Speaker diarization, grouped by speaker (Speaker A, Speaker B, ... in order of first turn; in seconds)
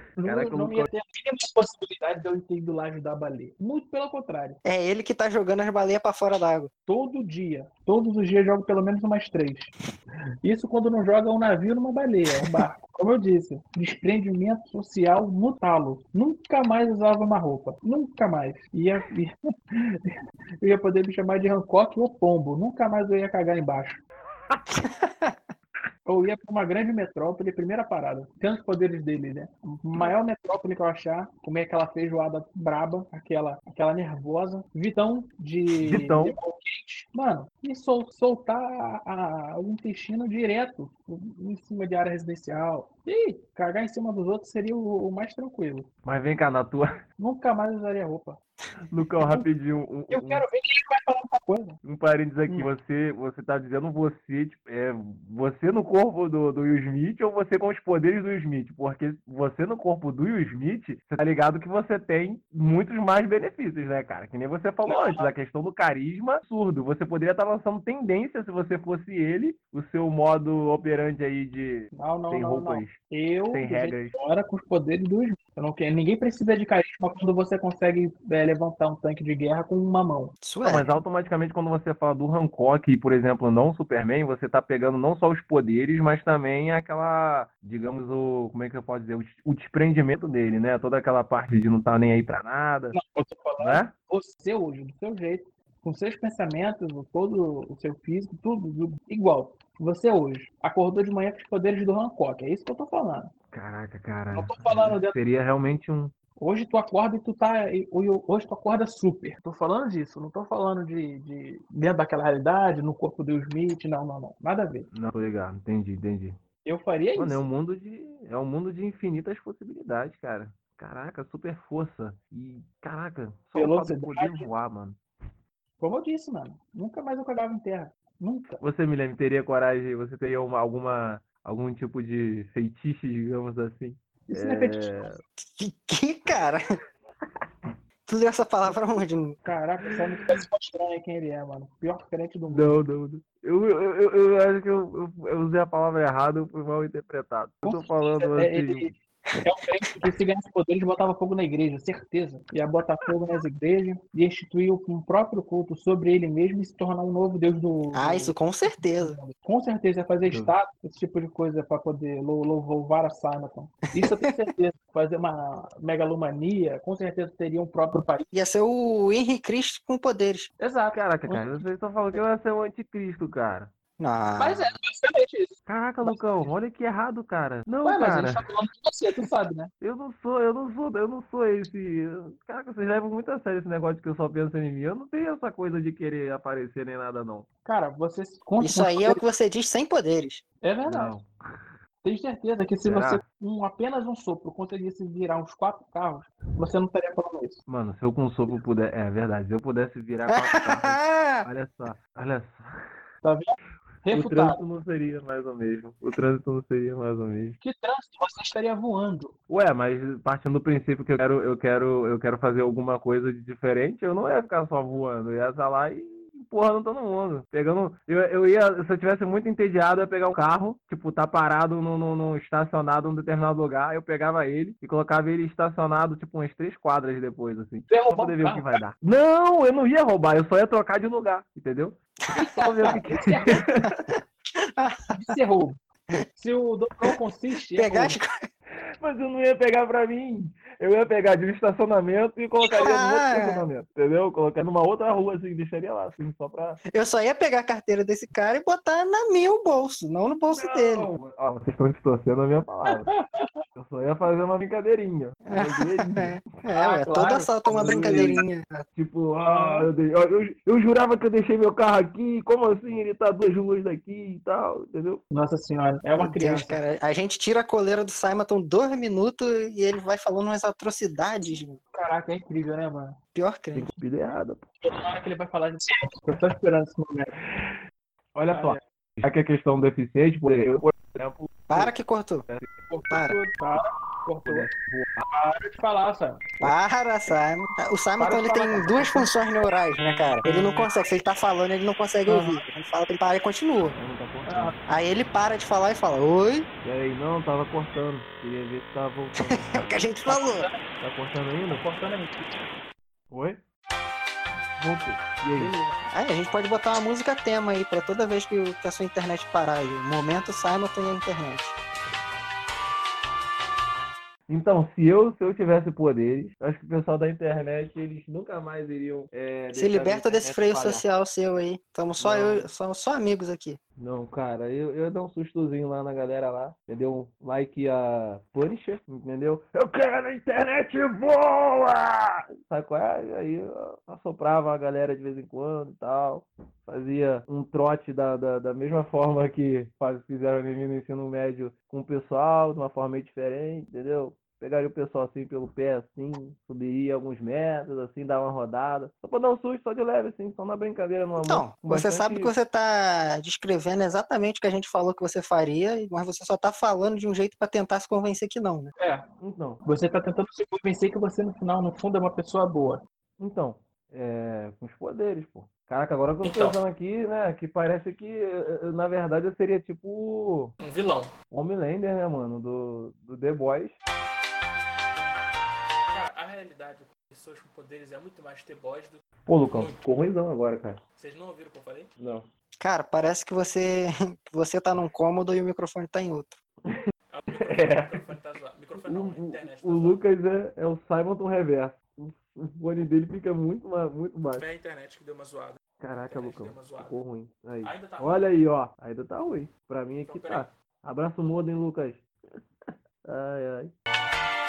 Speaker A: 0.2-4.6, 6.9-9.7, 10.4-24.0, 26.1-45.9, 47.2-48.4, 49.2-49.5, 50.1-51.8, 64.9-65.3, 71.9-80.4, 92.9-103.3, 104.3-105.2, 106.4-114.9, 116.7-117.4, 123.6-124.5, 125.8-128.6, 134.3-135.2, 139.4-142.8, 147.6-158.3, 158.9-168.3, 170.6-171.7, 174.4-176.2, 177.8-179.7, 187.7-189.2, 190.6-191.2, 192.0-197.6, 203.2-204.6, 207.6-209.3, 227.9-228.8, 232.8-233.7, 235.1-235.8, 236.4-238.2, 252.9-253.6, 256.7-258.5, 259.4-259.9, 265.3-266.8, 271.9-273.2, 274.8-277.3, 278.5-278.8, 282.9-284.7, 285.3-286.5, 288.2-289.3, 292.3-292.6, 294.5-294.8, 300.3-300.8, 301.7-302.6, 305.6-306.1, 359.0-359.3, 359.9-363.0, 366.4-366.8
Speaker B: 0.2-0.9, 35.8-36.4, 46.0-46.9, 48.9-50.5, 51.8-73.0, 73.5-74.2, 80.6-93.0, 93.6-93.9, 103.5-106.1, 114.9-116.4, 117.2-125.0, 128.6-135.2, 142.5-148.9, 160.3-160.5, 170.9-173.7, 175.7-178.4, 179.8-187.5, 190.8-191.3, 192.8-193.2, 197.7-202.6, 204.1-207.6, 209.5-233.9, 239.0-246.8, 250.5-253.1, 253.8-256.4, 257.7-258.2, 258.9-265.2, 273.7-274.6, 278.4-281.9, 282.5-282.8, 284.4-285.2, 294.0-294.7, 296.8-300.1, 301.0-301.9, 303.3-303.6, 304.8-305.7, 314.5-321.0, 322.2-322.7, 324.0-352.5, 359.4-359.8, 363.4-370.7, 371.5-374.0, 379.5-381.0, 382.2-382.5, 387.5-388.3, 389.1-394.6, 396.0-402.2, 402.9-403.9
Speaker C: 4.6-6.7, 24.7-25.4, 80.4-80.9, 135.4-136.7, 138.1-139.4, 157.9-159.2, 164.0-164.3, 168.3-170.5, 174.0-174.7, 188.6-190.4, 200.3-201.5, 232.3-232.7, 234.1-235.2, 237.7-238.5, 242.6-243.7, 246.9-251.1, 255.5-258.9, 266.2-271.8, 273.4-273.9, 281.7-282.4, 283.1-283.4, 286.6-294.0, 294.9-296.7, 299.5-300.7, 306.1-311.8, 319.7-323.8, 351.4-358.9, 382.8-386.6
Speaker D: 370.8-371.3, 376.1-379.2, 381.2-382.1, 387.3-390.2, 394.6-395.8, 396.3-397.1, 397.8-398.3, 400.3-400.6